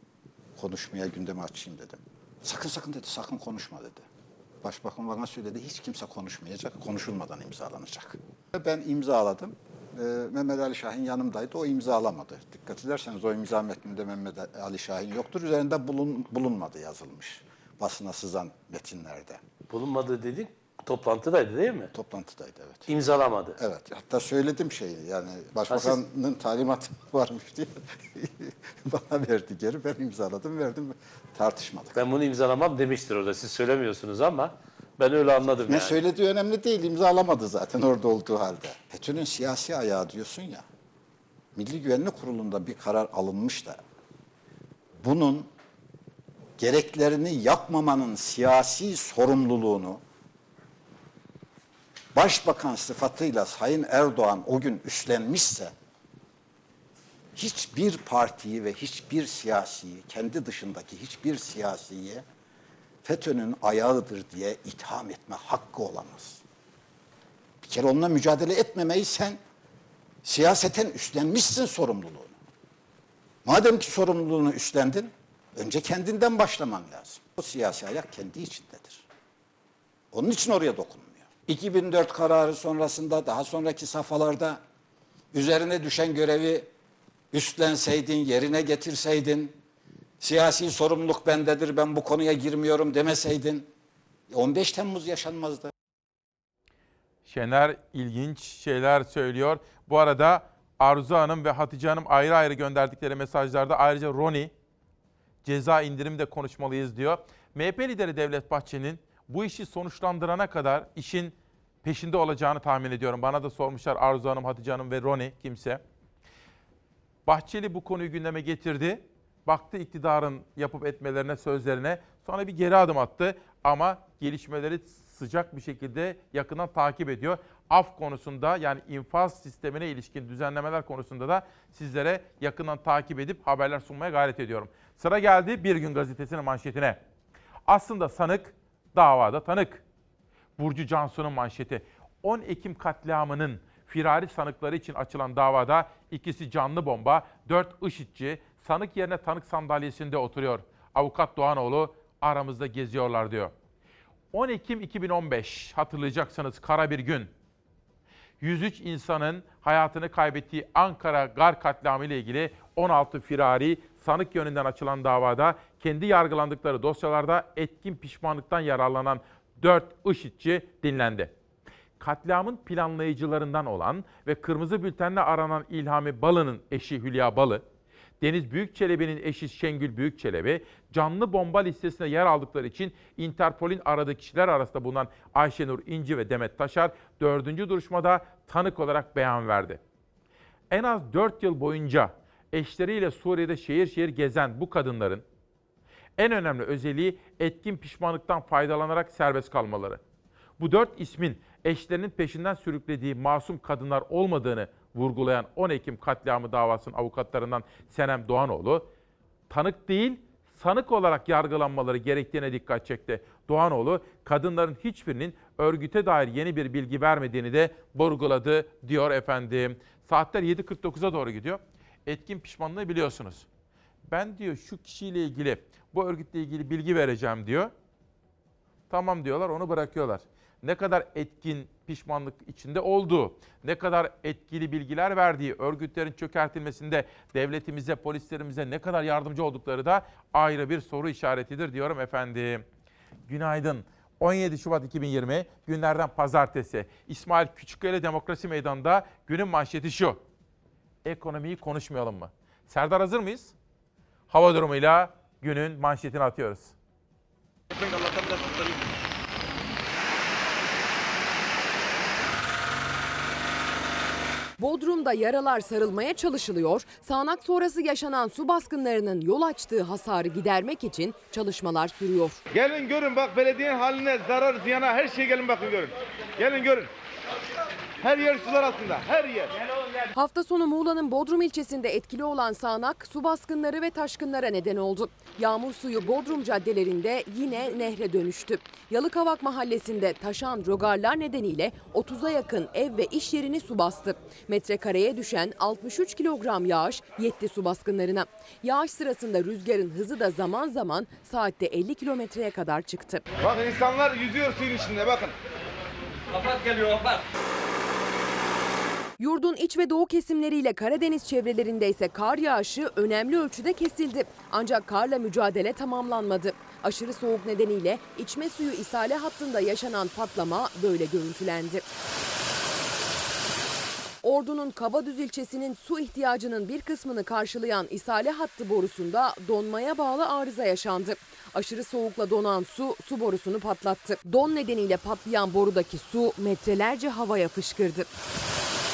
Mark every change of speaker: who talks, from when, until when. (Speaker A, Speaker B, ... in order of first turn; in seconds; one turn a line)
Speaker A: 0.6-4.0
Speaker A: 4.6-19.4
Speaker B: 19.7-21.9
Speaker A: 21.9-22.9
Speaker B: 22.9-23.6
Speaker A: 23.6-32.0
Speaker B: 25.7-26.0
Speaker B: 31.9-36.0
Speaker A: 35.7-40.7
Speaker A: 41.6-43.8
Speaker A: 45.0-45.5
Speaker A: 46.6-50.0
Speaker A: 52.1-55.7
Speaker A: 57.4-62.2
Speaker A: 63.0-66.4
Speaker A: 67.6-69.4
Speaker A: 70.2-72.4
Speaker A: 73.5-79.0
Speaker A: 80.1-84.6
Speaker A: 85.3-86.7
Speaker A: 87.3-89.6
Speaker A: 90.2-93.7
Speaker A: 94.3-95.7
Speaker C: 97.3-104.5
Speaker C: 105.4-115.8
Speaker C: 117.3-137.0
Speaker C: 137.7-139.8
Speaker C: 140.6-153.5
Speaker C: 154.3-157.3
Speaker C: 158.4-171.3
Speaker C: 172.0-177.6
Speaker C: 178.2-189.8
Speaker C: 190.7-195.2
Speaker C: 196.2-200.0
Speaker C: 200.6-208.9
Speaker C: 209.5-223.5
Speaker C: 224.1-227.7
Speaker C: 228.9-242.6
Speaker C: 243.3-250.2
Speaker C: 251.1-253.5
Speaker C: 254.3-256.8
Speaker D: 264.6-272.4
Speaker E: 272.5-276.9
Speaker E: 278.0-279.5
Speaker D: 280.1-303.2
Speaker E: 303.4-305.3
Speaker D: 309.2-321.9
Speaker D: 324.2-338.1